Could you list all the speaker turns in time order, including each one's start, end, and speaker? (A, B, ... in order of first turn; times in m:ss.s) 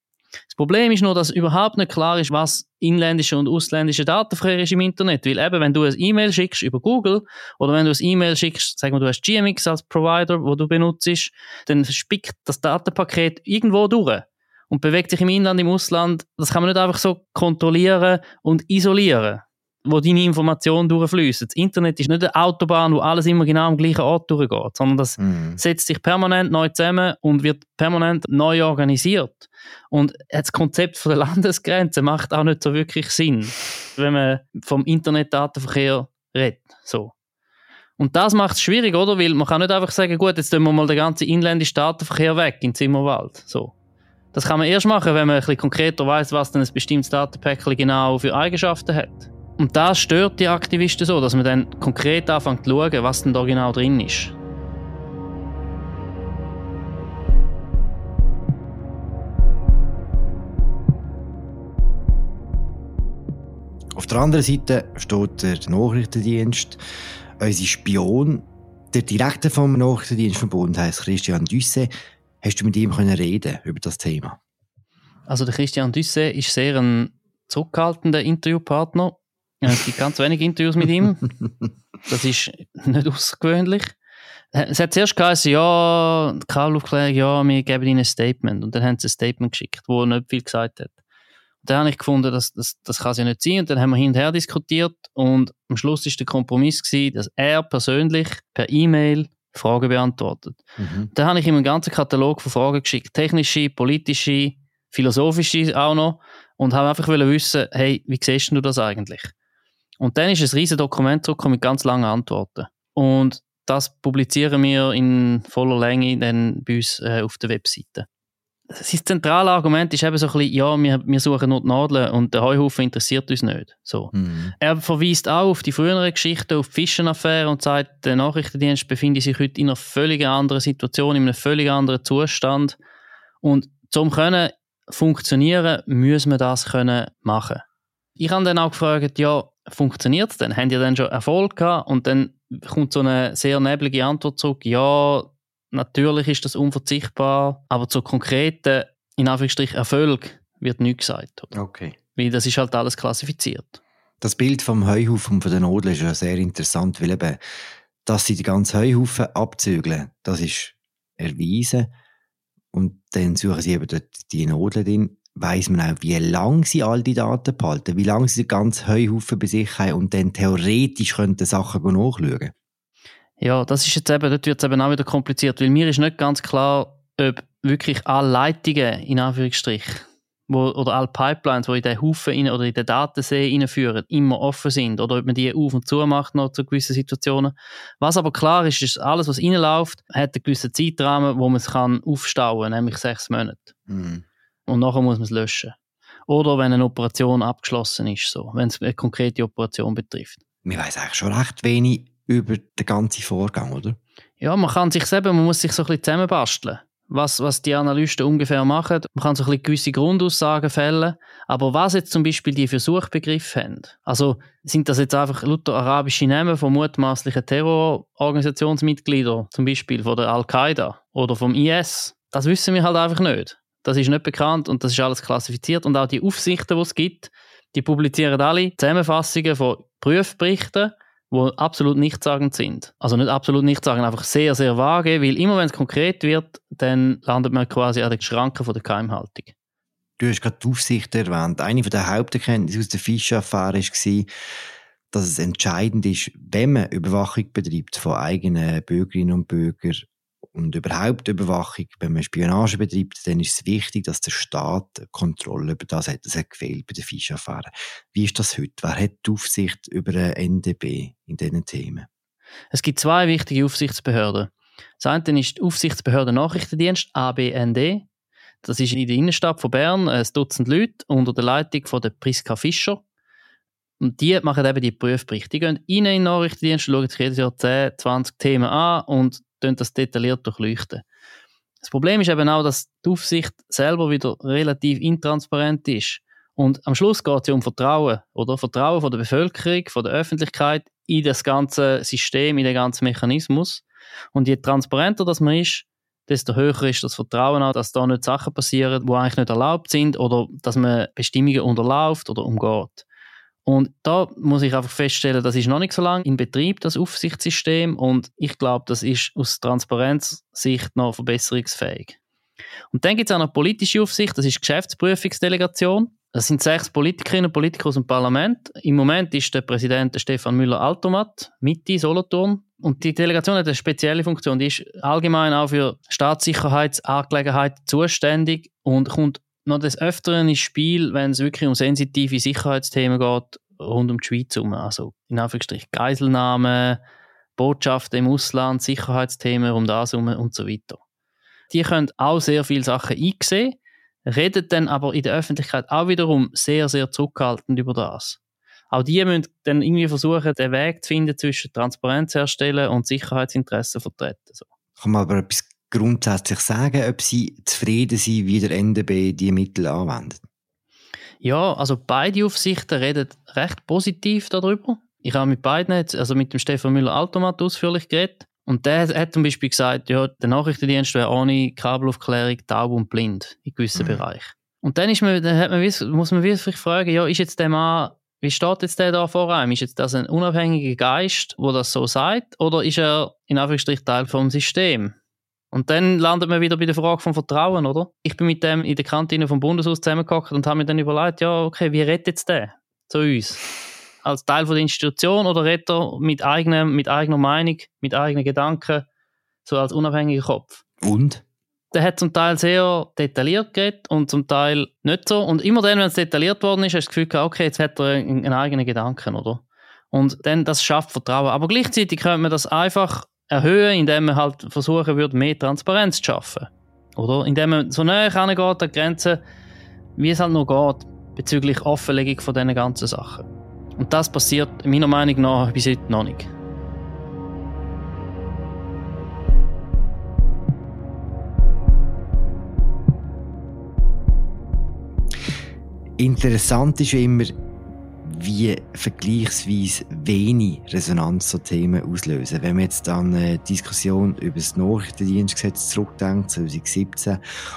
0:00.5-0:37.1 A
0:25.2-0:25.6 B
0:38.0-0:43.7 A
0:44.3-0:54.4 A
1:04.0-1:06.8 B
1:07.4-1:11.9 B
1:12.4-1:14.4 B
1:15.3-1:21.3 A
1:22.1-1:23.9 A
1:24.5-1:31.0 A
1:31.6-1:49.3 A
1:40.8-1:41.1 B
1:50.0-1:58.1 A
1:58.7-2:12.8 A
2:04.1-2:04.5 B
2:13.4-2:17.6 A
2:18.2-2:31.6 A
2:31.5-2:32.0 B
2:32.2-2:33.8 A
2:34.2-2:37.4 B
2:38.1-2:41.9 B
2:42.7-2:52.5 B
2:53.4-3:13.7 A
3:13.9-3:14.2 B
3:14.7-3:15.8 A
3:16.3-3:20.4 A
3:20.6-3:24.0 B
3:24.4-3:59.5 A
4:00.2-4:04.3 B
4:05.1-4:22.1 B
4:22.7-4:28.1 A
4:28.6-4:33.0 A
4:34.0-4:41.0 A
4:41.8-5:03.0 A
5:03.6-5:12.2 A
5:12.9-5:37.0 A
5:37.6-5:41.0 A
5:41.7-5:48.4 A
5:48.9-5:54.7 A
5:55.0-6:00.4 B
6:01.4-6:25.1 A
6:14.0-6:14.2 B
6:25.7-6:33.6 A
6:34.2-6:39.0 A
6:39.6-6:40.8 A
6:41.0-6:41.4 B
6:41.9-6:59.4 A
7:00.2-7:03.5 A
7:04.0-7:06.5 A
7:16.2-7:17.6 B
7:18.2-7:27.4 B